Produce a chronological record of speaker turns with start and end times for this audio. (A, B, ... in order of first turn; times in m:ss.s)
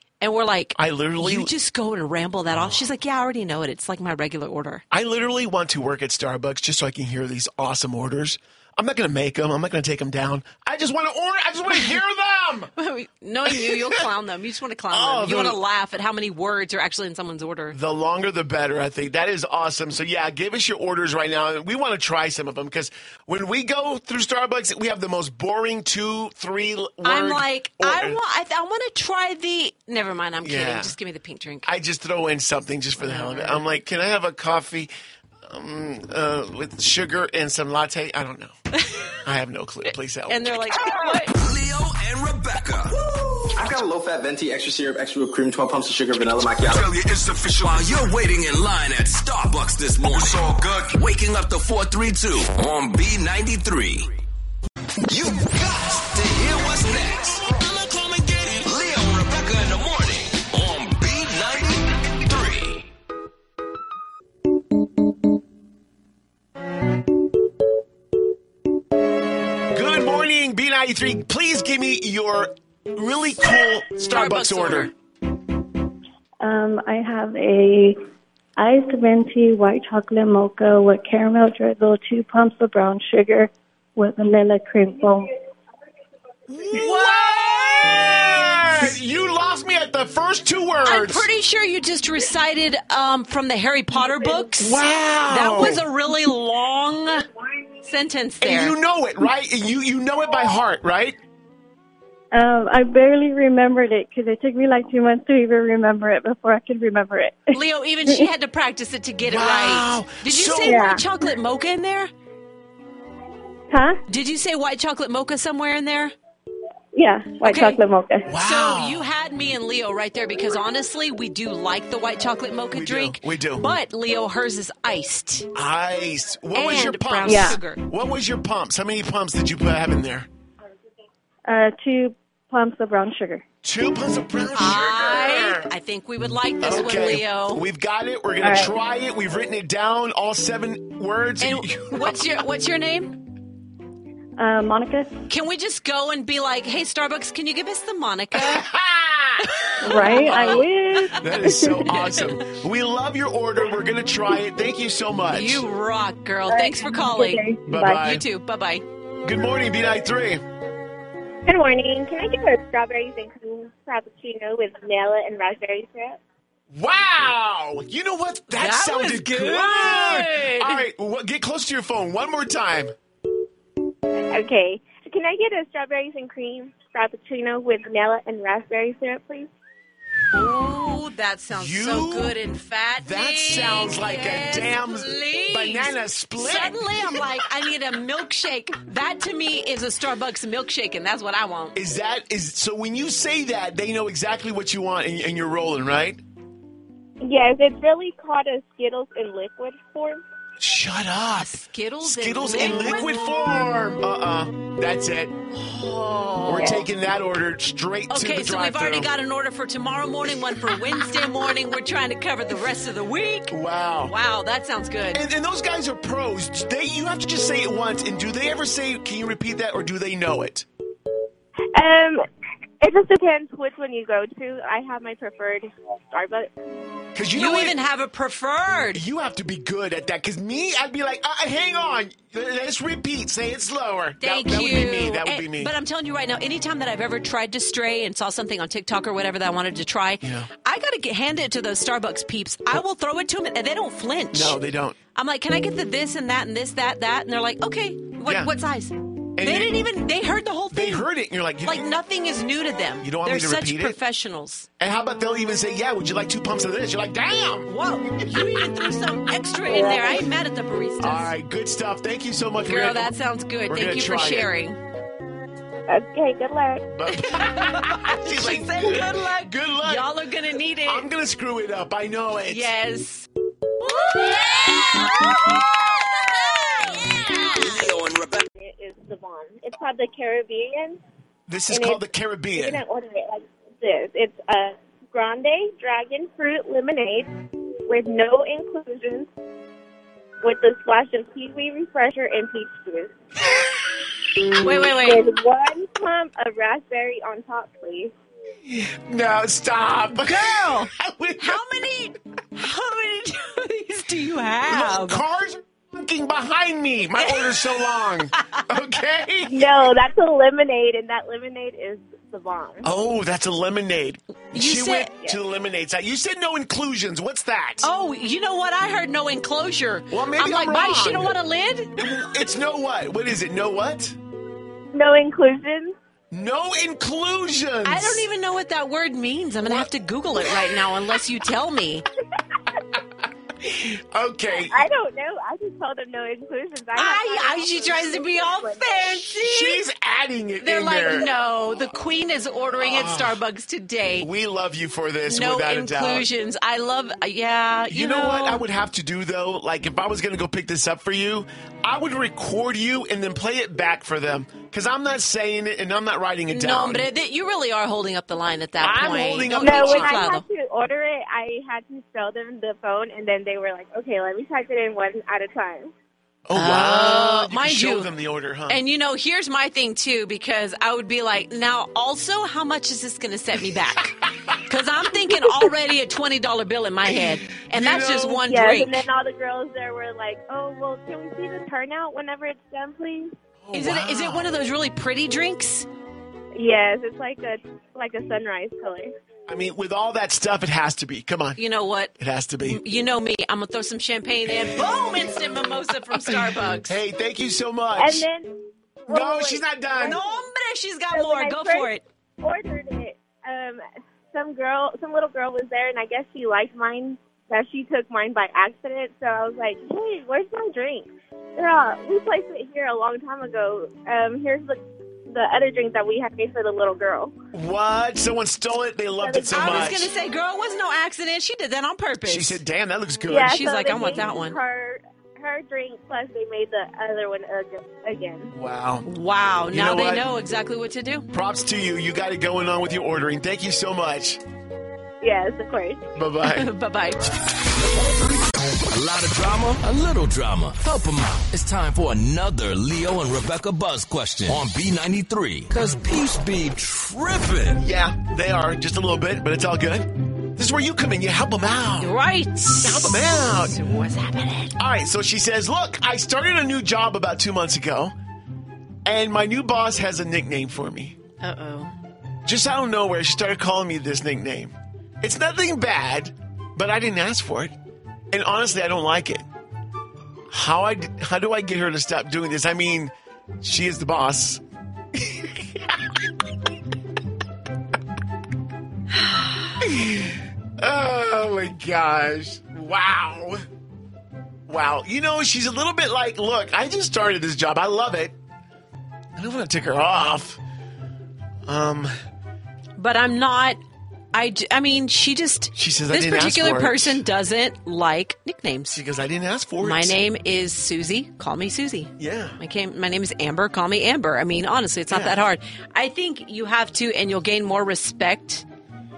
0:00.2-0:04.8 A
0:00.8-0:01.5 B
0:02.5-0:02.8 B
0:04.9-0:12.7 B
0:12.8-0:17.8 A
0:13.5-0:13.9 B
0:14.9-0:15.6 B
0:17.7-0:28.2 B
0:27.0-0:31.7 A
0:30.4-0:30.9 B
0:31.6-0:34.9 B
0:33.0-0:33.6 A
0:35.5-0:38.6 B
0:38.7-0:39.2 A
0:39.2-0:40.4 B
0:39.9-0:41.3 A
0:41.3-0:43.0 C
0:43.5-0:46.8 D
0:46.6-0:54.1 C
0:55.1-1:02.9 C
1:09.7-1:14.9 B
1:14.1-1:14.9 A
1:16.4-1:18.0 E
1:18.6-1:25.3 E
1:26.5-1:31.3 B
1:26.8-1:28.3 A
1:30.8-1:37.2 A
1:34.6-1:35.8 B
1:37.8-1:38.8 A
1:38.4-1:41.2 B
1:42.3-1:47.5 E
1:47.5-1:52.1 A
1:49.3-1:50.9 B
1:50.7-1:51.0 E
1:53.7-1:54.0 E
1:54.1-1:56.1 A
1:56.9-1:58.3 E
1:57.4-1:57.8 A
1:58.3-1:59.0 B
1:58.4-2:05.5 A
2:02.7-2:03.6 B
2:05.6-2:10.3 B
2:06.5-2:07.8 A
2:07.3-2:07.6 E
2:11.5-2:13.4 E
2:13.6-2:15.6 B
2:14.5-2:17.6 A
2:16.6-2:22.2 B
2:18.4-2:18.7 E
2:21.4-2:23.2 A
2:24.4-2:25.1 E
2:25.3-2:28.6 A
2:28.4-2:30.6 B
2:29.6-2:32.3 A
2:29.8-2:31.8 E
2:31.2-2:35.6 B
2:35.3-2:38.8 A
2:36.6-2:37.9 E
2:37.6-2:38.2 B
2:39.2-2:40.4 B
2:41.5-2:46.2 F
2:46.7-2:52.9 B
2:48.5-2:50.8 A
2:54.3-2:59.5 F
3:00.3-3:11.8 A
3:01.5-3:02.4 B
3:03.0-3:07.2 B
3:11.8-3:16.2 B
3:17.2-3:20.2 F
3:20.6-3:25.4 B
3:21.4-3:23.3 A
3:25.5-3:26.8 A
3:26.5-3:29.1 B
3:28.1-3:33.5 A
3:33.5-3:34.1 B
3:34.1-3:35.2 A
3:35.1-3:40.7 B
3:41.8-3:42.2 F
3:42.8-3:46.5 F
3:47.1-3:47.8 B
3:47.3-3:49.0 A
3:48.9-3:55.7 B
3:54.2-4:04.6 A
4:00.2-4:00.5 B
4:04.3-4:05.0 B
4:05.1-4:11.1 A
4:08.2-4:08.5 B
4:09.4-4:09.8 B
4:10.7-4:11.9 B
4:11.6-4:14.7 A
4:13.0-4:14.0 B
4:14.8-4:17.7 B
4:17.7-4:21.3 A
4:19.7-4:20.0 F
4:21.0-4:23.1 B
4:22.6-4:24.8 A
4:23.7-4:24.5 B
4:25.9-4:26.8 F
4:26.9-4:30.1 B
4:27.1-4:31.1 A
4:30.8-4:32.7 B
4:32.5-4:33.3 A
4:33.8-4:34.8 A
4:37.5-4:38.5 C
4:38.6-4:41.0 F
4:41.5-4:42.8 B
4:41.7-4:42.0 F
4:42.6-4:47.3 F
4:47.9-4:49.3 F
4:50.4-4:53.1 F
4:54.6-4:55.2 A
4:54.9-4:58.1 F
4:58.6-5:01.6 B
5:00.2-5:05.2 A
5:04.7-5:09.8 B
5:07.2-5:07.5 A
5:09.5-5:12.9 F
5:12.8-5:17.9 B
5:14.5-5:15.1 A
5:17.8-5:21.9 A
5:20.1-5:21.3 B
5:22.0-5:24.1 B
5:24.9-5:25.9 F
5:26.3-5:28.3 B
5:27.8-5:32.0 A
5:33.6-5:34.8 B
5:34.6-5:39.2 F
5:36.9-5:39.8 A
5:39.3-5:41.3 B
5:40.6-5:44.3 A
5:42.8-5:43.4 B
5:44.2-5:46.3 B
5:45.3-5:48.6 A
5:47.9-5:57.1 B
5:56.5-6:00.4 A
5:58.8-6:00.2 B
5:59.6-6:05.9 F
6:06.5-6:08.8 B
6:06.6-6:08.1 A
6:08.7-6:19.0 A
6:17.7-6:18.4 B
6:18.4-6:23.3 F
6:23.6-6:24.5 B
6:23.7-6:25.9 A
6:26.6-6:29.1 F
6:29.5-6:31.6 B
6:31.6-6:32.1 A
6:32.2-6:32.8 B
6:32.7-6:37.0 A
6:36.1-6:38.3 B
6:38.0-6:38.5 F
6:39.1-6:40.4 F
6:39.1-6:40.2 B
6:40.0-6:42.0 A
6:41.1-6:57.3 F
6:57.5-7:00.1 B
6:59.2-6:59.9 F
6:59.5-7:02.6 A
7:02.2-7:03.6 B
7:03.3-7:08.5 F
7:03.3-7:04.6 A
7:08.5-7:09.1 B
7:09.0-7:11.3 A
7:09.7-7:10.2 B
7:11.3-7:14.4 B
7:15.2-7:16.0 F
7:16.2-7:16.7 B
7:16.4-7:17.2 A
7:17.8-7:27.8 C
7:27.8-7:32.1 B
7:32.0-7:34.7 A
7:32.8-7:33.7 B
7:34.8-7:38.1 B
7:39.0-7:41.2 B
7:41.4-7:41.9 A
7:42.4-7:47.7 B
7:48.3-7:49.5 B
7:50.5-7:54.6 B
7:55.2-7:55.6 B
7:59.2-7:59.7 A
7:59.8-8:03.6 B
8:04.7-8:08.4 B
8:09.4-8:10.6 B
8:11.6-8:12.1 B
8:13.0-8:13.8 A
8:14.3-8:19.0 A
8:15.7-8:17.2 B
8:18.9-8:20.2 B
8:19.8-8:28.6 A
8:22.2-8:22.6 B
8:25.1-8:25.4 B